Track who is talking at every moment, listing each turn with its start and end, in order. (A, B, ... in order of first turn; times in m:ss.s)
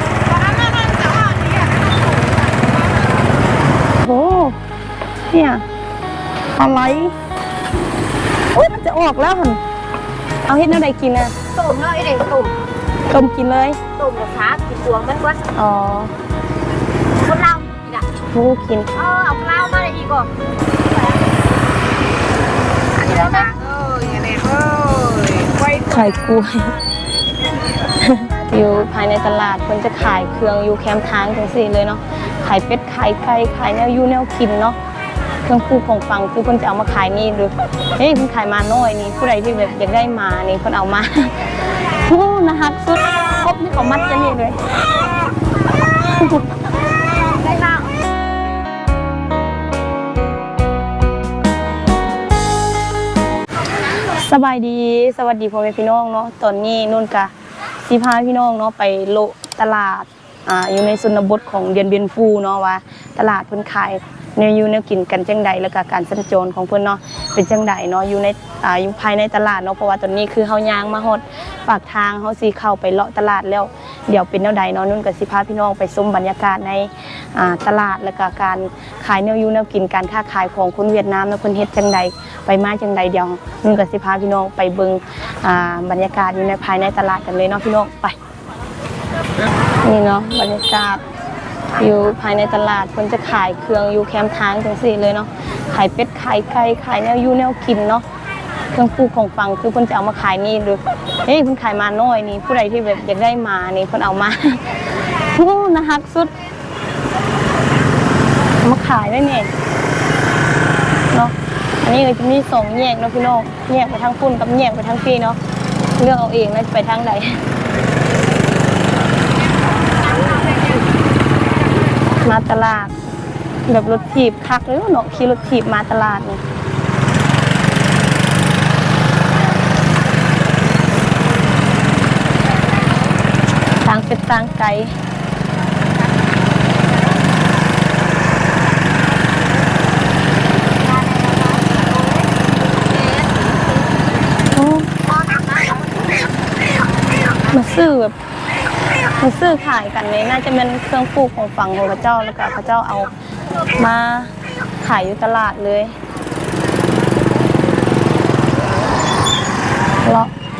0:00.4-0:02.8 A
0:04.0-0:04.6 B
0:05.3-0:05.6 B
0:06.5-0:07.1 B
0:08.5-0:09.6 B
0:10.4-0:11.3 B
0:11.5-0:12.6 A
0:13.1-0:13.8 B
0:14.0-0:15.5 A
0:15.5-0:16.1 B
0:17.2-0:18.1 A
0:18.3-0:18.9 B
0:19.0-0:20.3 A
0:22.9-0:25.7 A
0:25.7-0:26.7 B
0:28.0-0:34.8 B
0:35.4-0:44.6 B
0:46.2-0:46.4 B
0:47.4-0:47.9 A
0:54.1-0:57.3 B
0:57.8-1:28.2 B
1:29.8-1:31.0 B
1:31.7-1:38.0 B
1:38.7-1:44.7 B
1:45.2-1:46.3 B
1:48.6-1:49.5 B
1:51.1-1:55.4 B
1:56.0-1:57.4 B
2:02.2-2:02.9 B
2:03.7-2:06.4 B
2:13.8-2:14.9 B
2:20.6-2:24.1 A
2:24.5-2:24.9 B
2:25.1-2:25.9 A
2:27.5-2:28.2 B
2:29.1-2:33.1 B
2:33.7-2:36.0 B
2:40.0-2:40.3 B